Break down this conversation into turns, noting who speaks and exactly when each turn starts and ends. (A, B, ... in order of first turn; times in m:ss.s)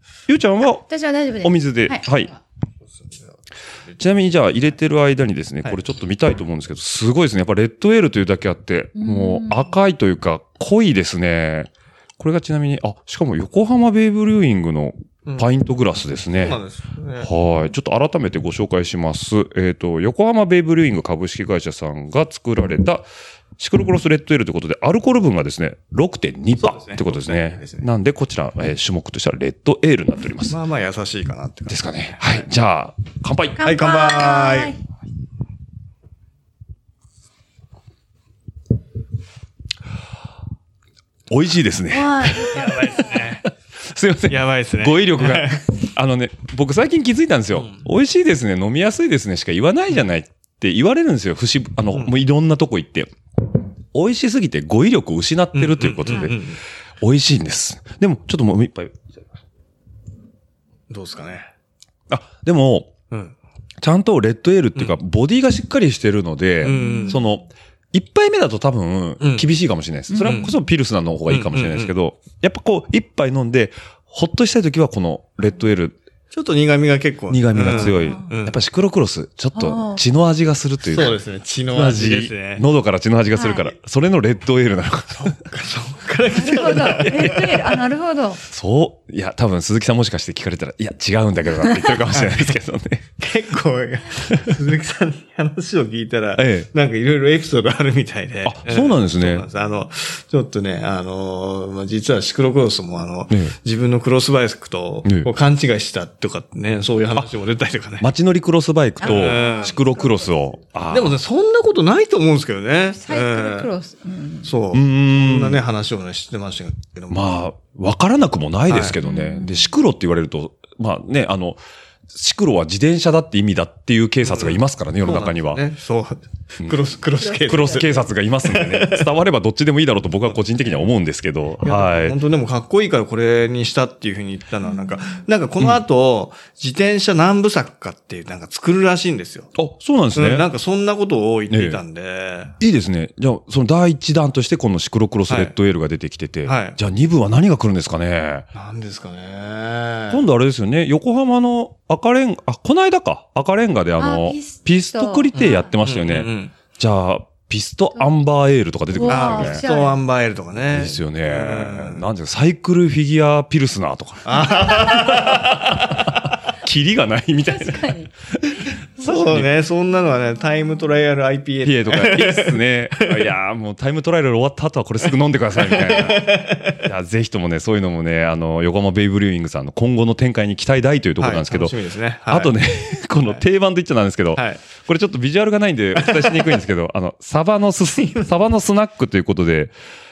0:00.3-0:00.8 A
0:00.9-0:02.0 B
0:01.4-0:02.3 A
0:03.0-0:03.3 C
0:04.0-0:16.6 A
0:08.9-0:09.7 B
0:16.4-0:17.3 C
0:17.2-0:23.0 A
0:23.6-0:30.6 A
0:26.6-0:27.9 C
0:30.5-0:32.4 C
0:31.7-0:33.6 A
0:33.6-0:34.7 B
0:33.6-0:34.8 C
0:41.3-0:53.1 A
0:41.9-0:43.2 B
0:42.4-0:43.4 C
0:44.3-0:45.6 C
0:53.9-0:59.2 A
0:55.5-0:56.6 C
1:00.9-1:01.5 C
1:02.1-1:02.9 A
1:03.1-1:03.4 C
1:03.8-1:16.0 A
1:06.6-1:07.2 C
1:06.7-1:07.2 B
1:09.2-1:09.5 C
1:10.1-1:10.5 B
1:10.2-1:10.5 C
1:11.3-1:11.9 C
1:16.3-1:18.6 C
1:17.3-1:21.2 A
1:17.7-1:18.3 B
1:19.6-1:20.0 B
1:20.8-1:22.6 C
1:21.7-1:25.4 A
1:23.3-1:23.7 B
1:25.1-1:27.6 C
1:26.3-1:28.4 B
1:27.0-1:27.6 A
1:28.5-1:33.0 A
1:31.7-1:32.0 B
1:32.1-1:32.5 C
1:33.2-1:48.1 C
1:36.4-1:36.7 A
1:38.4-1:39.5 A
1:48.0-1:51.2 A
1:49.0-1:50.3 B
1:49.0-1:49.8 C
1:50.9-1:53.7 C
1:53.0-1:54.5 B
1:54.4-1:57.3 C
1:54.7-1:55.6 A
1:57.1-2:05.6 A
1:58.7-1:59.0 C
1:59.0-1:59.7 B
2:04.2-2:09.1 C
2:07.3-2:12.2 A
2:10.3-2:10.8 C
2:11.6-2:19.5 C
2:19.6-2:20.5 A
2:20.1-2:22.5 C
2:21.5-2:21.8 A
2:22.6-2:28.5 A
2:25.3-2:25.5 C
2:26.4-2:26.8 C
2:28.5-2:30.2 C
2:30.1-2:39.6 A
2:34.0-2:35.7 B
2:35.3-2:36.5 C
2:38.9-2:40.0 B
2:39.1-2:42.0 C
2:40.7-2:46.0 A
2:44.2-2:46.4 C
2:46.6-2:49.5 A
2:47.4-2:48.1 B
2:49.0-2:53.2 C
2:51.6-3:01.7 A
2:55.6-2:56.8 C
3:01.2-3:02.5 C
3:02.3-3:09.7 A
3:04.3-3:04.6 C
3:06.0-3:06.5 C
3:08.0-3:08.3 C